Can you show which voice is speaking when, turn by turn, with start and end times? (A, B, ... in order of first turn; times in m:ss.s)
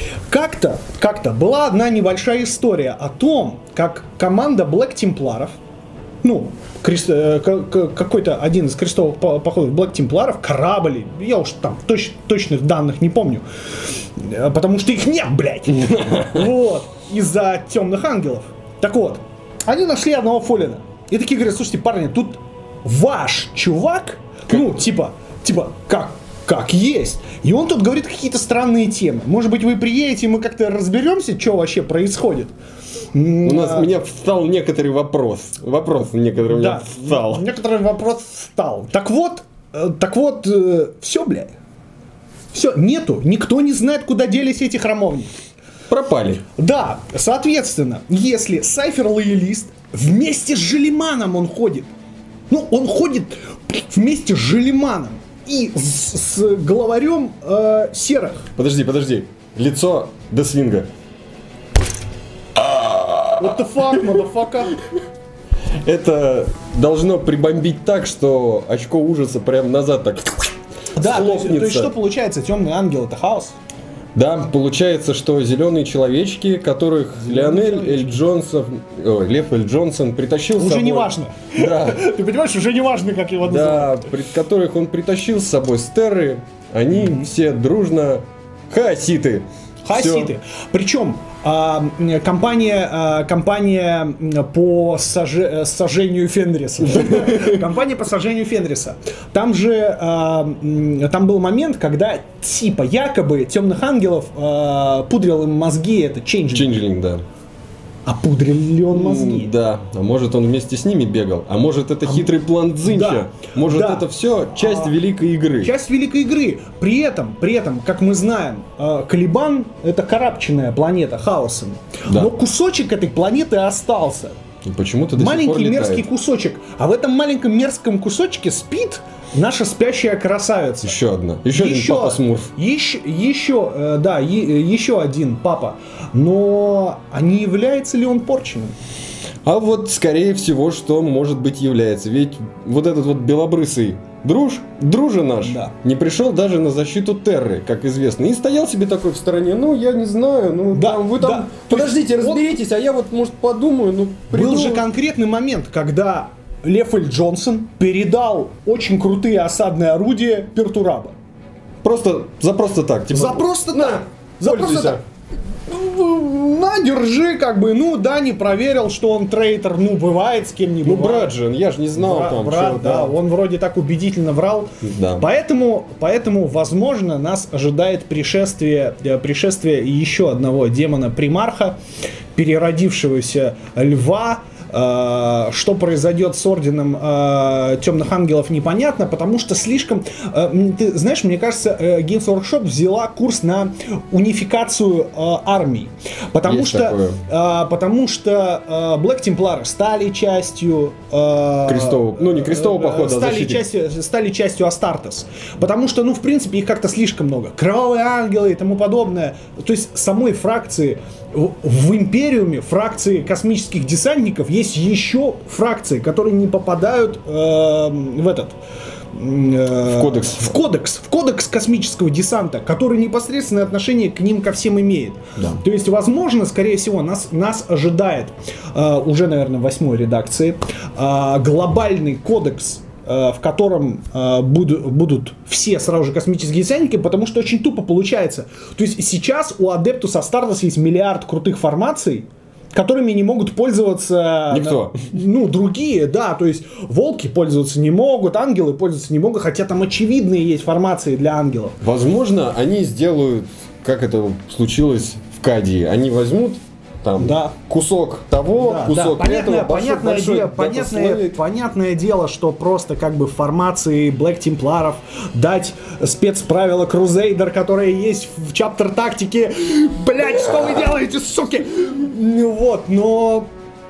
0:00.3-0:05.6 A
0:06.2-0:32.5 A
0:15.9-0:16.4 B
0:33.1-0:33.9 A
0:33.4-0:37.4 B
0:36.5-0:41.5 A
0:42.5-0:45.3 A
0:45.9-0:46.4 B
0:46.6-0:51.9 A
0:52.5-0:58.5 A
0:58.6-1:00.9 B
1:02.6-1:04.0 B
1:03.4-1:04.8 A
1:05.8-1:11.9 B
1:11.0-1:13.6 A
1:14.2-1:22.0 B
1:17.2-1:18.2 A
1:20.6-1:24.1 A
1:23.4-1:30.3 B
1:26.9-1:27.3 A
1:29.8-1:46.8 A
1:36.9-1:37.6 B
1:46.5-1:47.2 B
1:48.1-1:49.5 A
1:48.9-1:55.7 B
1:52.0-1:52.3 A
1:52.8-1:55.0 A
1:55.6-2:04.4 A
2:04.6-2:06.0 B
2:05.2-2:11.0 A
2:10.8-2:12.5 B
2:11.5-2:18.8 A
2:19.5-2:34.8 B
2:25.4-2:25.7 A
2:30.7-2:32.5 A
2:34.3-2:41.1 A
2:41.8-2:45.0 B
2:43.1-2:45.0 A
2:45.7-2:51.4 A
2:50.8-2:53.2 B
2:52.0-3:01.8 A
2:54.8-2:55.3 B
3:02.4-3:38.6 A
3:16.4-3:17.2 B
3:21.7-3:23.6 B
3:39.1-4:11.8 A
3:39.8-3:40.6 B
4:04.5-4:05.1 B
4:11.8-4:21.4 B
4:17.2-4:17.6 A
4:18.6-4:33.5 A